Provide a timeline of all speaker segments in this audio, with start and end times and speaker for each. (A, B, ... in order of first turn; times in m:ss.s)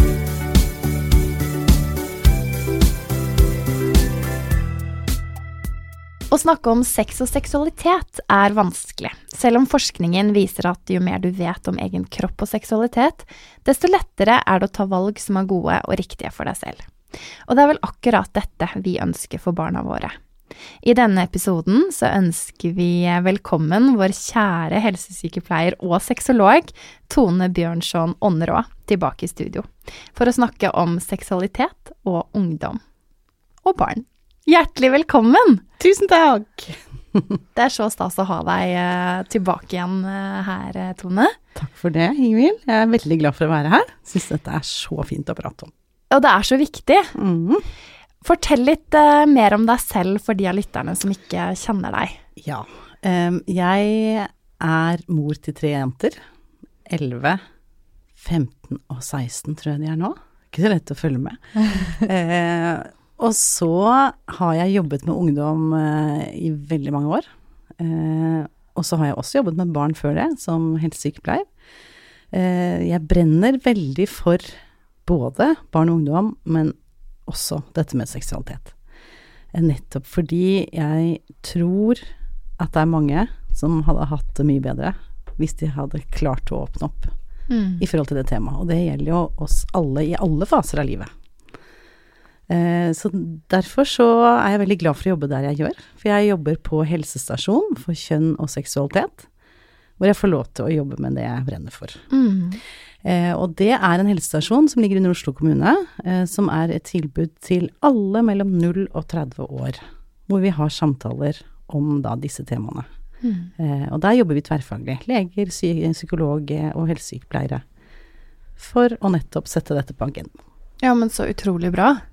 0:06.3-0:20.2 A
0:20.8-0:32.8 A
0:33.6-0:35.6 A
0:35.8-0:37.4 B
0:37.6-0:41.4 A
0:41.6-0:45.7 B
0:46.1-0:47.2 A
0:47.2-0:47.7 B
0:48.2-0:52.2 A
0:52.4-0:56.2 B
0:56.9-0:57.4 B
0:58.2-1:07.3 B
1:07.8-1:11.5 B
1:12.3-1:14.5 B
1:15.0-1:16.8 B
1:17.3-1:18.7 B
1:19.5-1:22.0 B
1:22.6-1:27.1 B
1:27.5-1:27.8 A
1:27.8-1:31.1 B
1:32.5-1:39.3 B
1:40.0-1:42.0 B
1:42.1-1:42.6 A
1:43.0-1:52.9 B
1:53.2-1:53.5 A
1:53.6-1:57.6 B
1:58.6-2:00.4 B
2:00.8-2:02.0 A